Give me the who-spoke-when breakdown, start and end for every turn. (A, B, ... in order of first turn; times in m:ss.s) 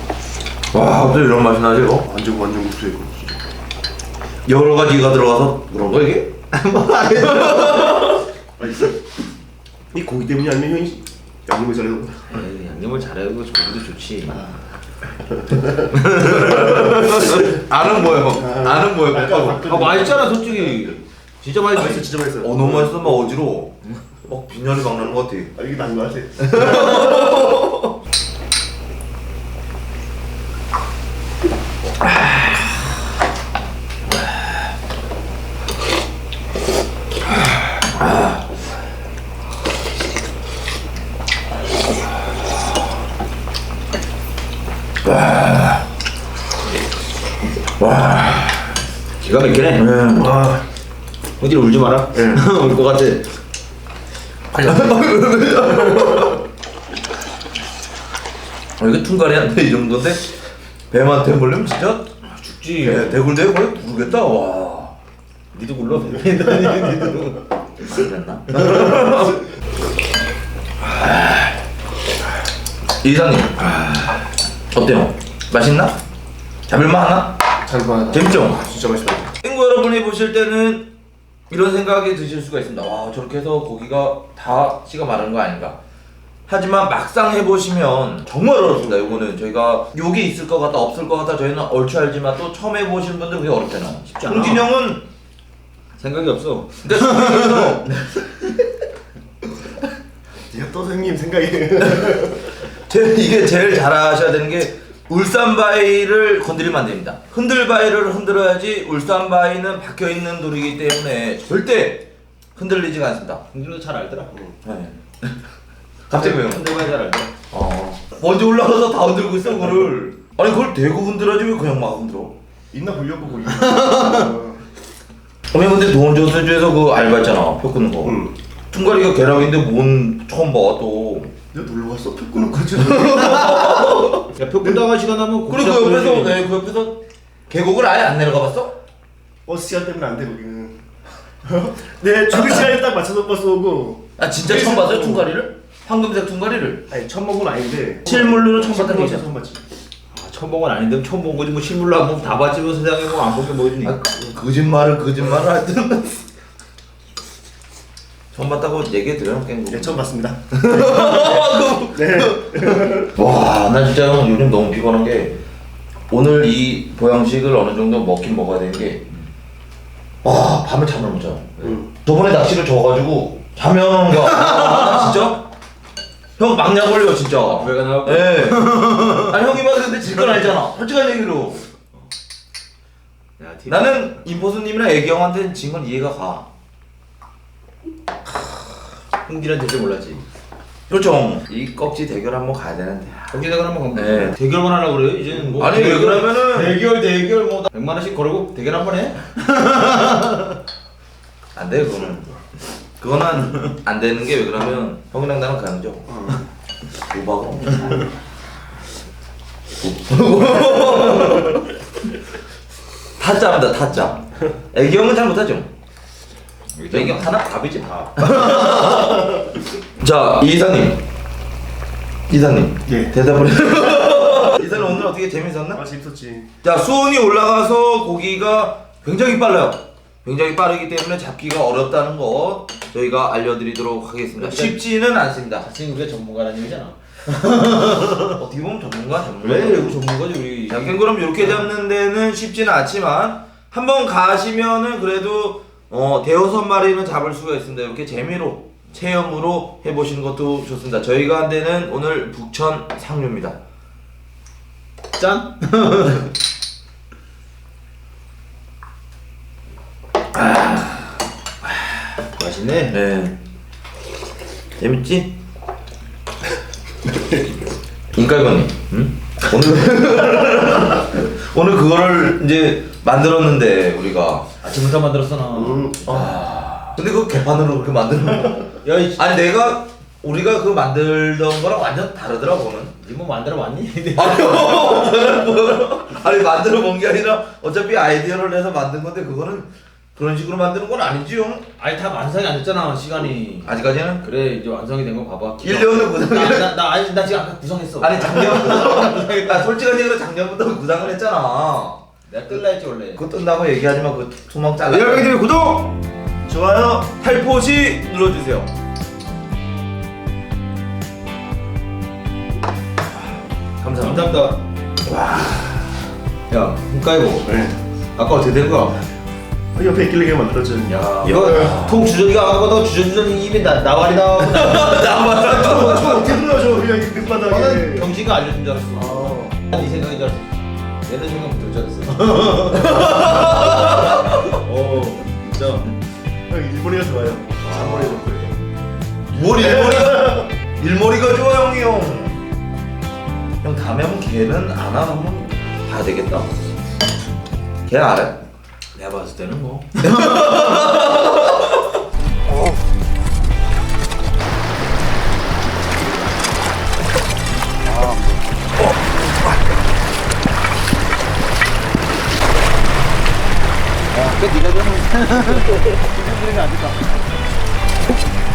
0:00.7-0:02.1 A
0:02.0-0:03.4 B
0:04.5-0:06.3 A
0:06.5-0:08.0 C
0:07.1-0:08.2 A
0:08.6-0:09.0 B
0:09.9-0:12.4 B
0:12.3-0:14.5 C
0:15.4-0:15.9 B
0:15.9-0:19.7 A
0:17.2-0:17.5 B
0:18.3-0:20.8 B
0:19.6-0:22.1 C
0:21.7-0:23.4 B
0:22.4-0:25.5 A
0:25.6-0:27.4 B
0:26.4-0:27.9 A
0:32.1-0:32.4 A
0:38.0-0:38.4 A
0:45.0-0:45.8 A
0:47.8-0:48.8 A
0:49.2-0:49.9 C
0:49.8-0:50.4 A
0:50.2-0:50.6 B
0:51.4-0:53.3 C
0:52.1-0:52.5 B
0:54.5-0:55.4 C
0:54.6-0:56.4 A
0:58.8-1:00.4 A
1:00.9-1:02.1 A
1:02.2-1:03.2 C
1:02.8-1:05.0 A
1:05.5-1:07.5 C
1:07.8-1:09.4 A
1:08.6-1:08.9 C
1:11.0-1:11.6 A
1:13.0-1:14.0 A
1:14.7-1:16.0 A
1:16.7-1:17.4 A
1:17.6-1:19.3 B
1:18.1-1:18.7 A
1:19.4-1:20.9 A
1:21.5-1:25.8 A
1:26.5-1:35.1 A
1:28.9-1:29.2 B
1:34.1-1:34.7 C
1:36.0-1:37.8 C
1:36.8-1:38.3 A
1:40.5-1:42.6 B
1:42.0-1:53.4 A
1:53.5-1:54.4 C
1:54.6-1:55.3 A
1:56.1-1:56.8 A
1:56.1-1:57.3 C
1:57.5-2:02.4 A
2:02.7-2:04.6 B
2:03.8-2:04.2 C
2:05.5-2:11.3 A
2:08.0-2:08.3 B
2:11.5-2:13.6 B
2:12.8-2:14.3 A
2:13.3-2:16.4 C
2:15.5-2:18.8 A
2:19.5-2:20.8 B
2:21.4-2:25.3 B
2:24.2-2:26.9 A
2:26.9-2:29.6 B
2:28.1-2:29.3 A
2:30.1-2:34.0 C
2:33.8-2:36.3 A
2:38.3-2:45.4 A
2:39.7-2:40.4 B
2:41.9-2:43.1 B
2:46.1-2:49.1 A
2:50.2-2:55.5 A
2:51.6-2:51.9 B
2:56.4-3:01.6 A
2:57.6-2:59.4 C
3:03.4-3:04.2 C
3:03.7-3:06.5 A
3:09.2-3:10.2 C
3:10.9-3:13.4 A
3:13.3-3:20.5 C
3:13.9-3:14.4 A
3:15.4-3:16.8 A
3:21.6-3:22.4 A
3:23.0-3:26.2 A
3:27.1-3:28.1 A
3:29.8-3:31.8 A
3:33.2-3:35.7 A
3:36.8-3:38.4 C
3:36.9-3:39.4 A
3:40.0-3:41.0 A
3:42.3-3:45.8 A
3:42.9-3:43.2 B
3:44.7-3:45.1 B
3:45.7-3:46.5 B
3:46.6-3:55.7 A
3:54.4-3:54.8 C
3:55.6-3:58.4 C
3:58.2-4:00.0 A
3:59.3-4:01.7 C
4:00.7-4:13.6 A
4:15.2-4:16.3 C
4:20.3-4:21.9 A
4:22.4-4:23.0 C
4:22.9-4:23.4 A
4:24.8-4:25.4 A
4:28.1-4:34.5 A
4:34.6-4:36.7 C
4:35.5-4:36.0 B
4:36.1-4:43.0 A
4:38.8-4:39.4 C
4:43.0-4:45.3 C
4:44.2-4:51.7 A
4:51.8-4:59.7 C
4:53.6-4:54.3 A
4:55.6-4:56.8 A
4:58.0-5:02.6 A
5:02.3-5:03.2 C
5:03.2-5:05.4 A
5:04.9-5:05.9 C
5:06.5-5:07.0 B
5:07.0-5:08.7 A
5:13.8-5:14.4 A
5:14.0-5:14.6 C
5:15.1-5:16.0 A
5:16.5-5:17.5 C
5:17.4-5:17.8 B
5:18.2-5:19.0 C
5:19.8-5:21.8 B
5:20.9-5:26.5 C
5:21.2-5:22.1 A
5:24.4-5:26.4 A
5:25.5-5:28.1 B
5:27.5-5:30.5 C
5:29.0-5:29.6 B
5:31.0-5:35.9 C
5:32.7-5:34.5 A
5:36.5-5:38.6 B
5:37.6-5:38.2 A
5:39.3-5:42.4 A
5:39.6-5:40.5 B
5:43.6-5:46.5 A
5:47.9-5:48.4 A
5:49.0-5:50.6 C
5:50.0-5:51.8 A
6:04.1-6:07.0 C